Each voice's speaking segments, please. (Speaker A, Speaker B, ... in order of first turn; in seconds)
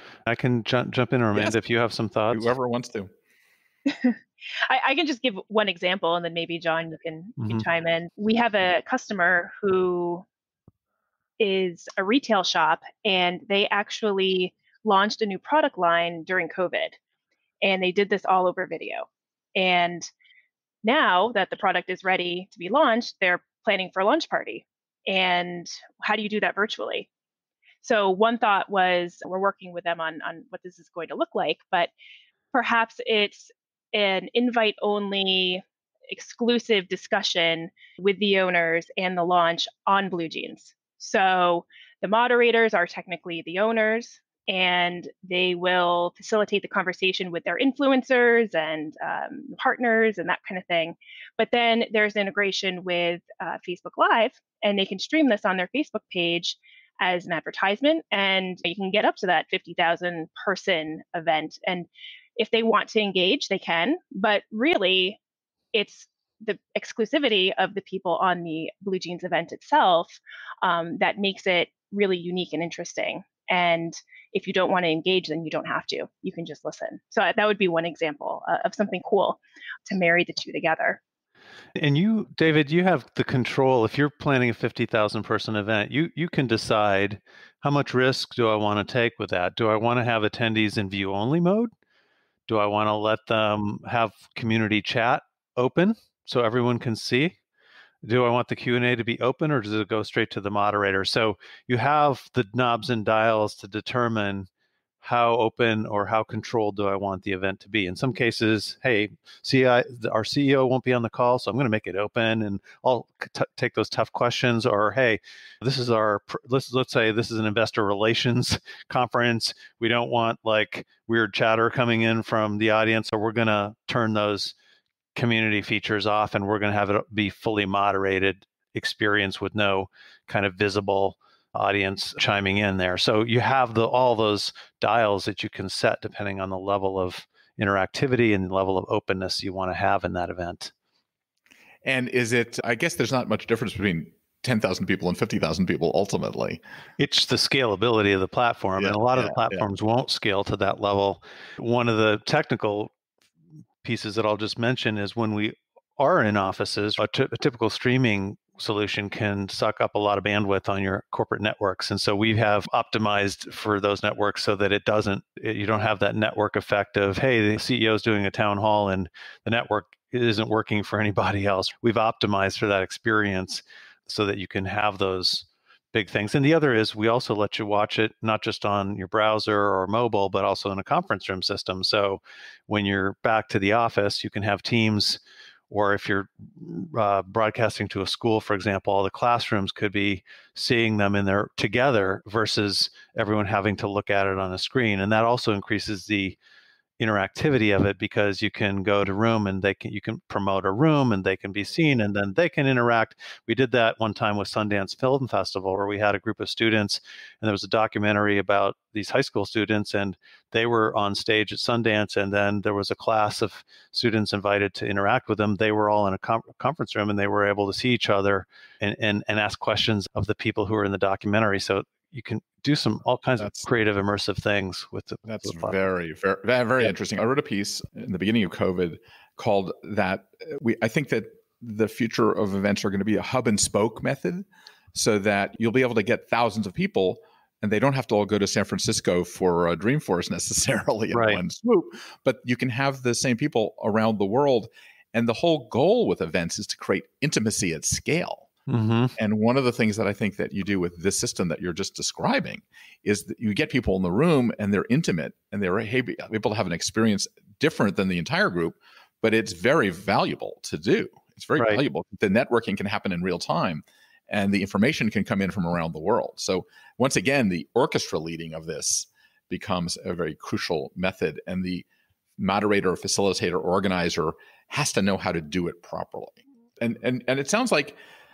Speaker A: 0.3-2.5, 81.8-91.7, 92.5-97.4, 98.0-104.5, 105.0-124.5, 125.2-140.7, 147.0-152.9, 153.8-196.4, 197.0-225.8, 241.1-241.4, 248.7-249.1
Speaker B: 2.3-3.1, 141.8-146.6, 148.8-149.7, 223.4-223.7, 225.3-248.5, 249.2-271.9, 272.4-278.0
Speaker C: 3.9-10.2, 11.4-17.0, 17.6-20.1, 20.8-27.1, 27.8-31.9, 32.5-65.2, 65.7-81.0